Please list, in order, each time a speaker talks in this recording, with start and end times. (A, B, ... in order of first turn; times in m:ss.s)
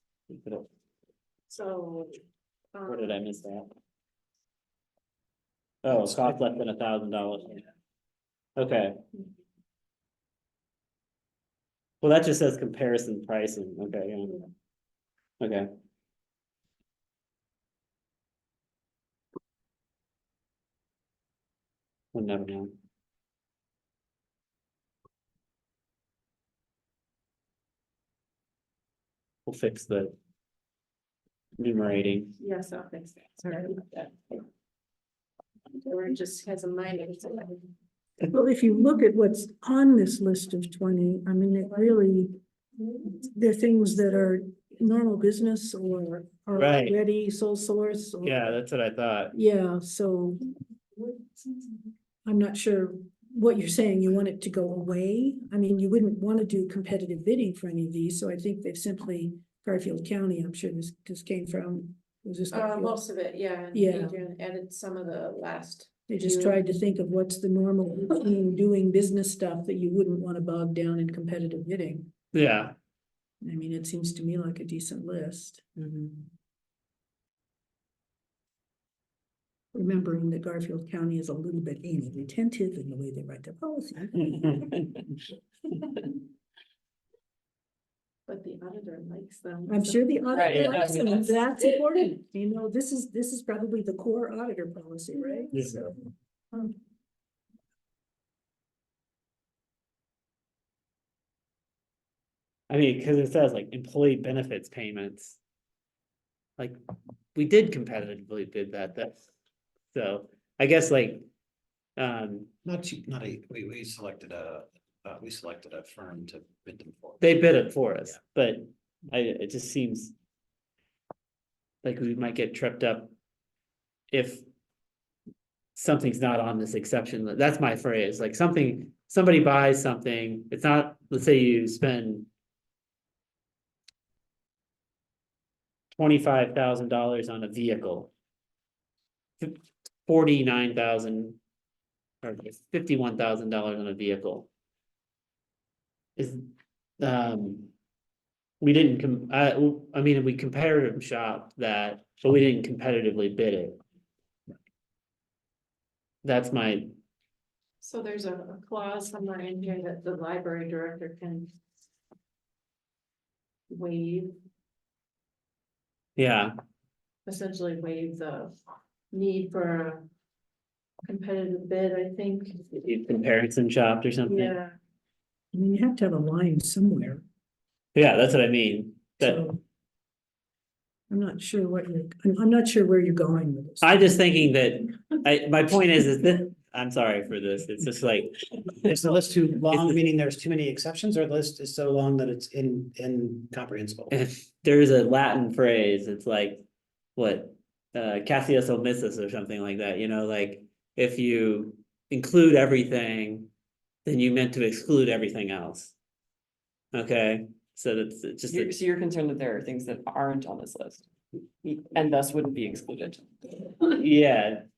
0:00.3-0:00.7 A
0:01.5-0:02.2 B
0:02.7-0:03.2 B
0:02.9-0:03.7 A
0:05.8-0:07.6 A
0:08.6-0:09.0 A
0:12.0-0:14.4 A
0:15.4-0:15.7 A
0:22.1-0:22.7 A
0:29.5-0:30.1 A
0:31.6-0:32.3 A
0:32.4-0:34.4 B
0:35.8-0:37.6 B
0:38.3-0:42.4 C
0:43.1-0:48.4 C
0:46.6-0:47.0 A
0:48.2-0:49.4 A
0:49.3-0:50.4 C
0:52.2-1:03.0 C
1:02.5-1:06.6 B
1:03.7-1:04.2 C
1:06.1-1:12.1 C
1:12.3-1:12.7 A
1:13.4-1:15.6 C
1:15.8-1:16.2 D
1:19.7-1:24.6 C
1:28.3-1:31.0 B
1:29.6-1:36.0 C
1:30.3-1:31.3 D
1:42.7-1:45.4 A
1:47.3-1:49.3 A
1:49.9-1:51.3 A
1:52.0-1:52.5 A
1:52.6-1:57.4 E
1:57.2-2:00.1 A
2:01.8-2:03.1 A
2:04.1-2:04.4 A
2:05.8-2:12.3 A
2:15.9-2:18.1 A
2:19.4-2:21.4 A
2:22.2-2:24.5 A
2:26.2-2:26.5 A
2:27.0-2:27.7 A
2:28.6-2:33.8 A
2:36.2-2:36.9 A
2:37.8-2:41.5 B
2:43.7-2:44.3 B
2:46.2-2:46.5 A
2:47.2-2:48.5 B
2:49.1-2:50.0 B
2:51.0-2:52.6 B
2:52.7-2:54.6 A
2:54.2-2:54.8 B
2:55.5-2:57.2 C
2:57.9-2:59.4 A
2:59.2-2:59.6 C
3:01.1-3:04.0 C
3:03.8-3:08.3 A
3:08.8-3:14.1 E
3:09.7-3:10.0 A
3:14.1-3:16.6 A
3:17.2-3:23.5 A
3:24.0-3:25.9 A
3:26.9-3:28.8 A
3:28.5-3:31.1 D
3:31.6-3:33.7 D
3:33.9-3:34.6 A